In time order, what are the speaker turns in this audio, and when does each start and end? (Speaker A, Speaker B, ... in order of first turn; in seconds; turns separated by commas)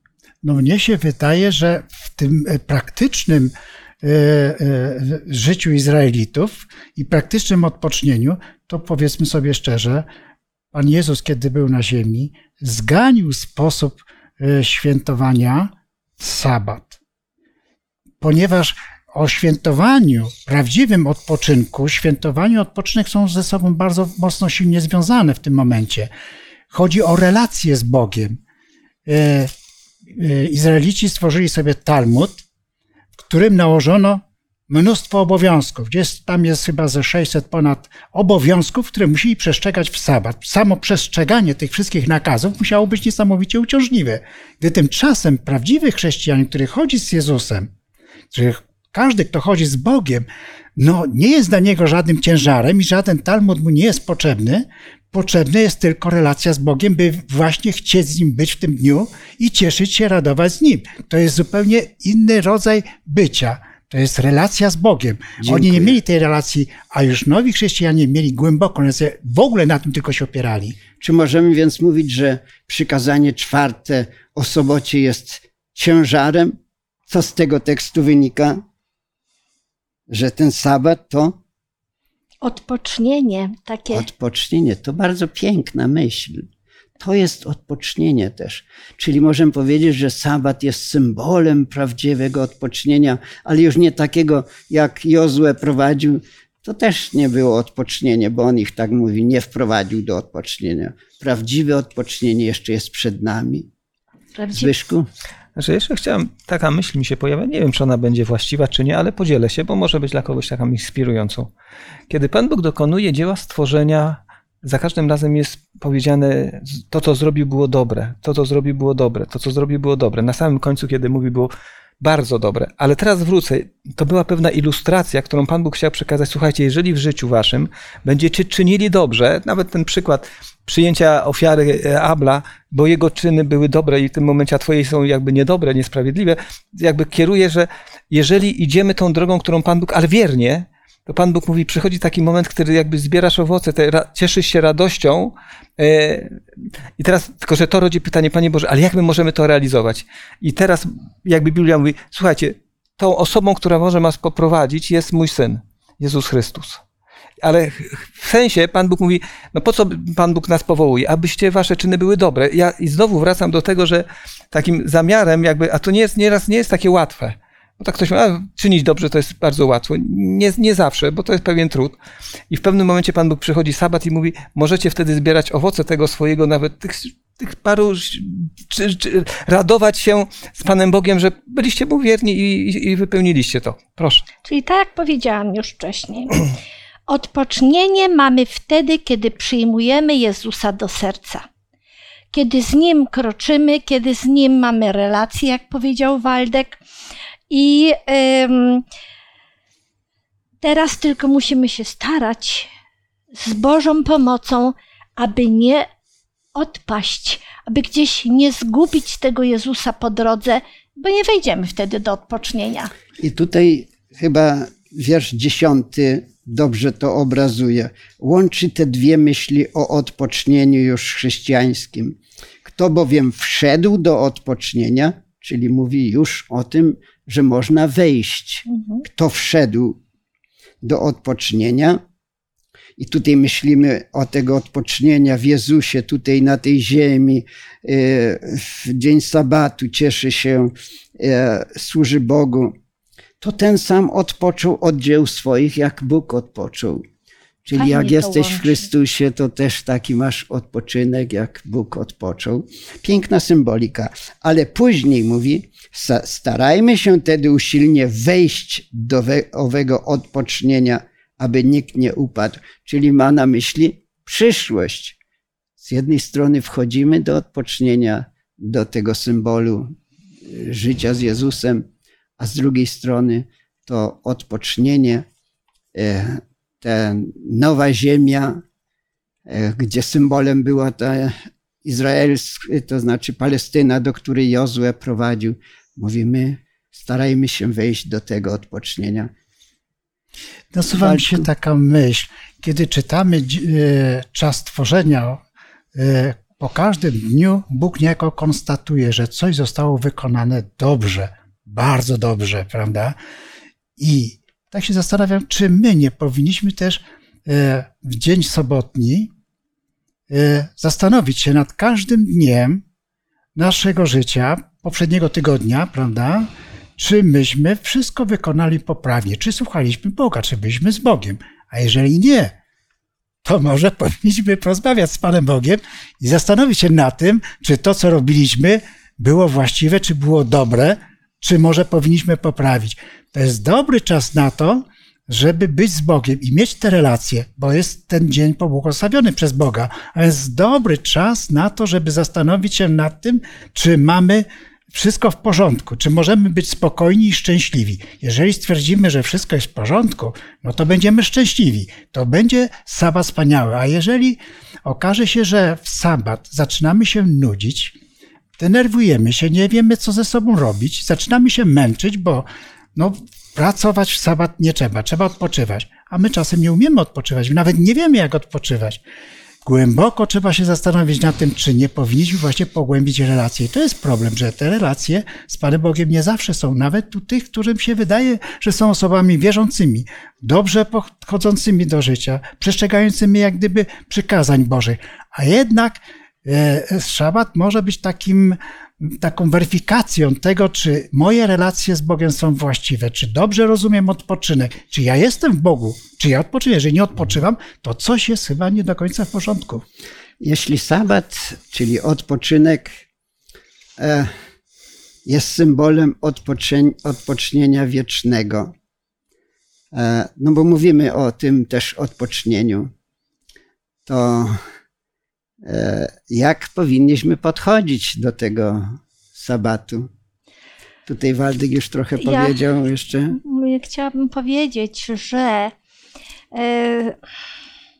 Speaker A: 0.4-10.1, Speaker A: 10.7-17.0, Speaker A: 18.2-26.1, Speaker A: 26.7-28.4, Speaker A: 29.1-29.5, Speaker A: 30.1-32.5, Speaker A: 33.2-47.7, Speaker A: 48.3-70.8, Speaker B: 65.4-66.0, Speaker B: 71.0-76.6, Speaker B: 77.1-78.6, Speaker B: 80.1-81.4, Speaker C: 82.4-84.0, Speaker B: 83.9-86.5, Speaker B: 87.0-103.7, Speaker C: 104.3-104.7, Speaker B: 104.5-105.1, Speaker D: 105.6-111.5, Speaker D: 112.1-146.4, Speaker D: 147.0-156.8, Speaker D: 157.4-172.0, Speaker D: 172.5-184.2, Speaker C: 184.4-186.4, Speaker C: 187.1-191.4, Speaker C: 192.3-196.8, Speaker C: 197.5-198.8, Speaker C: 200.6-202.7, Speaker C: 203.4-205.9, Speaker C: 206.6-212.9, Speaker B: 213.2-230.0, Speaker C: 228.7-229.0, Speaker B: 230.8-232.0, Speaker B: 233.0-242.8, Speaker B: 243.4-247.0, Speaker B: 247.6-265.2, Speaker C: 247.8-248.9, Speaker B: 265.8-269.9, Speaker B: 270.5-271.9, Speaker B: 272.4-275.2, Speaker B: 275.9-278.6, Speaker B: 279.5-289.3, Speaker A: 290.7-295.4, Speaker B: 290.9-291.5, Speaker A: 295.9-303.2, Speaker A: 304.0-309.3, Speaker A: 310.3-312.8, Speaker A: 313.6-322.6, Speaker A: 323.4-358.0, Speaker A: 358.6-369.0, Speaker A: 369.6-399.9, Speaker B: 400.4-403.0, Speaker B: 404.0-404.3, Speaker B: 405.3-408.7, Speaker B: 409.9-412.9, Speaker B: 414.1-414.6, Speaker B: 415.6-420.1, Speaker B: 421.1-423.4, Speaker C: 422.2-422.6, Speaker C: 423.3-425.8, Speaker C: 426.5-427.2